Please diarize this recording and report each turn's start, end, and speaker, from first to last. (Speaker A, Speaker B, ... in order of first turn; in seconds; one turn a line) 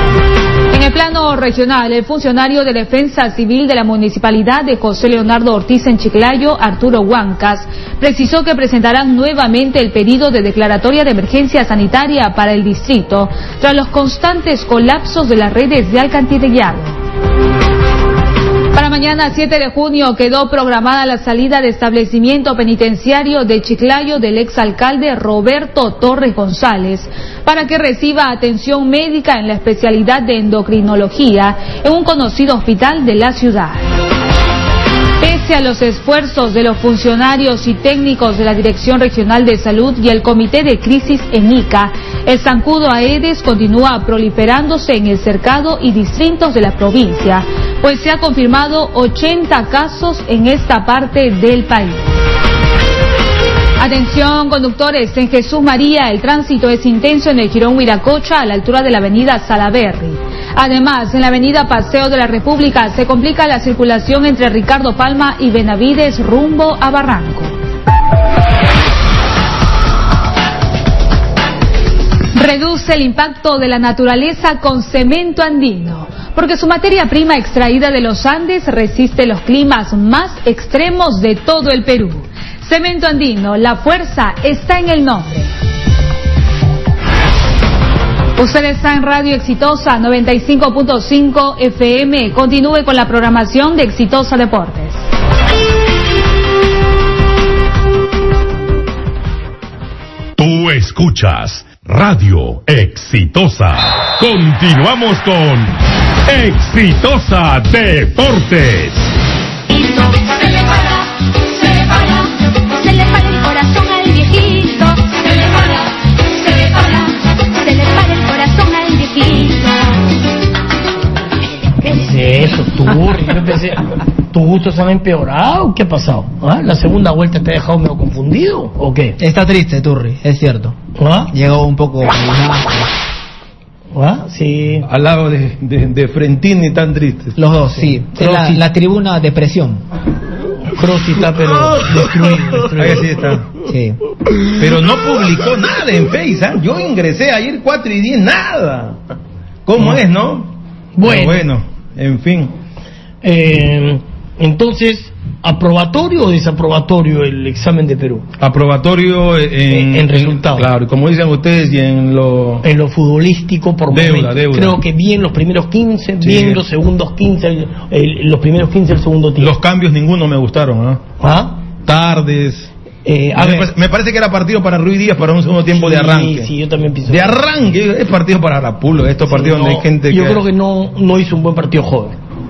Speaker A: 0.7-17.0
Speaker A: 18.7-33.9
Speaker A: 35.2-52.1
Speaker A: 53.8-67.5
Speaker A: 72.3-85.5
Speaker A: 88.3-95.0
Speaker B: 100.4-105.7
Speaker B: 106.3-109.1
Speaker C: 109.7-120.0
Speaker D: 121.8-129.2
Speaker E: 129.2-130.7
Speaker D: 131.0-131.3
Speaker E: 131.3-132.9
Speaker D: 133.9-134.9
Speaker F: 134.8-137.3
Speaker E: 137.3-139.8
Speaker D: 137.9-138.6
Speaker D: 140.7-143.1
Speaker F: 142.7-143.4
Speaker E: 143.6-144.0
Speaker F: 144.6-149.0
Speaker F: 149.7-152.5
Speaker D: 151.0-151.4
Speaker D: 153.2-158.3
Speaker F: 158.4-162.6
Speaker D: 159.7-160.7
Speaker D: 162.6-169.5
Speaker F: 163.9-164.8
Speaker F: 166.2-166.6
Speaker F: 169.4-171.0
Speaker D: 171.2-171.6
Speaker F: 171.8-172.7
Speaker D: 173.0-173.7
Speaker F: 173.3-176.5
Speaker D: 175.7-177.4
Speaker F: 177.1-180.4
Speaker D: 179.2-182.2